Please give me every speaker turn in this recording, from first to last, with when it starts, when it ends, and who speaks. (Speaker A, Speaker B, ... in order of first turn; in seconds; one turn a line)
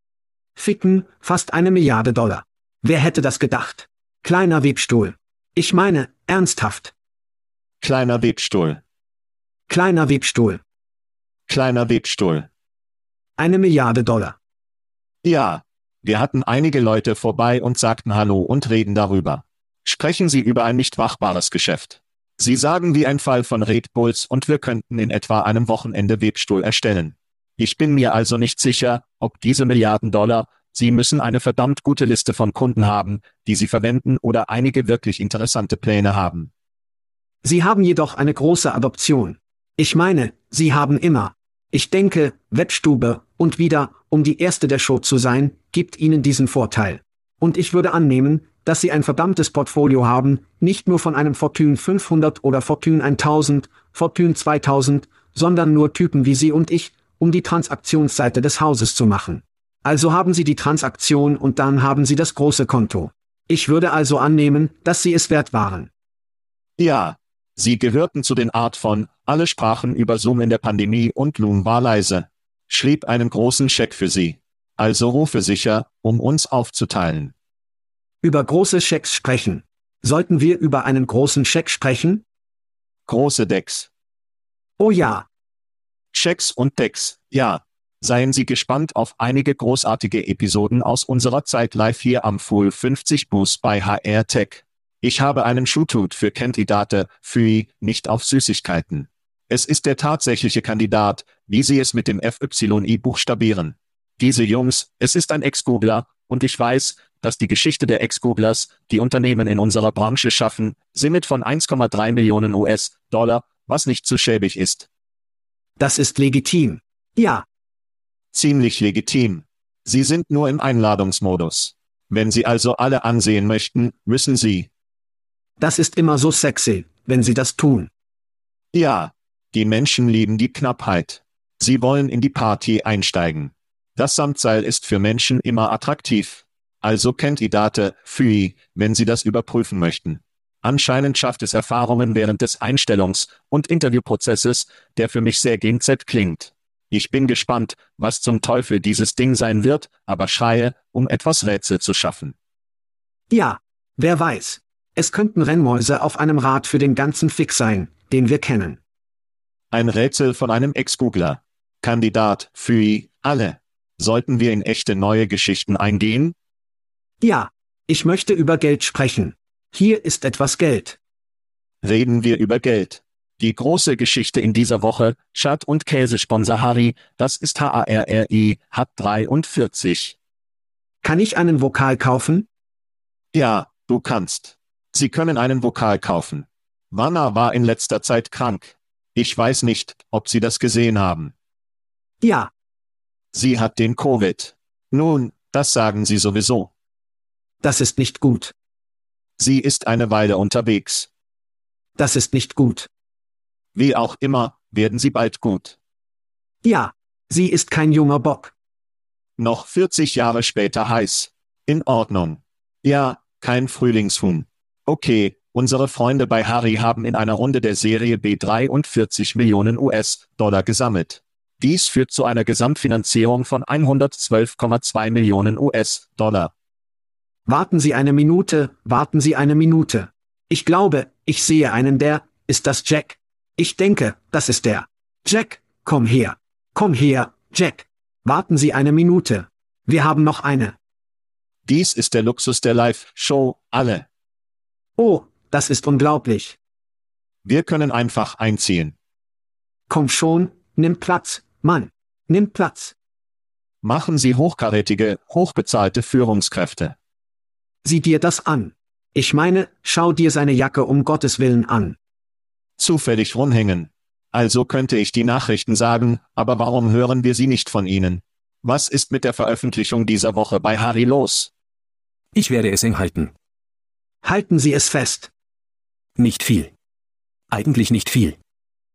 Speaker A: 0.6-6.9
Speaker B: 7.8-8.8
Speaker A: 9.7-10.6
Speaker B: 11.5-12.5
Speaker A: 13.4-14.3
Speaker B: 15.2-36.5
Speaker A: 37.4-65.9
Speaker B: 66.8-77.3
Speaker A: 78.2-82.2
Speaker B: 83.1-83.9
Speaker A: 84.8-85.2
Speaker B: 86.1-114.9
Speaker A: 115.8-117.4
Speaker B: 118.3-124.7
Speaker A: 125.6-127.9
Speaker B: 128.7-152.3
Speaker A: 153.3-158.8
Speaker B: 159.7-166.3
Speaker A: 167.2-171.0
Speaker B: 171.8-180.2
Speaker A: 181.0-182.5
Speaker B: 183.3-191.3
Speaker A: 192.2-192.5
Speaker B: 193.3-196.7
Speaker A: 197.6-198.5
Speaker B: 199.4-201.1
Speaker A: 202.0-202.9
Speaker B: 203.7-205.8
Speaker A: 206.6-208.5
Speaker B: 209.4-226.5
Speaker A: 227.5-240.8
Speaker B: 241.6-244.1
Speaker A: 245.0-246.6
Speaker B: 247.4-248.9
Speaker A: 249.9-252.9
Speaker B: 253.8-256.9
Speaker A: 257.8-262.0
Speaker B: 262.8-271.5
Speaker C: 272.3-273.3
Speaker A: 274.2-275.3
Speaker C: 276.2-276.7
Speaker C: 277.5-278.4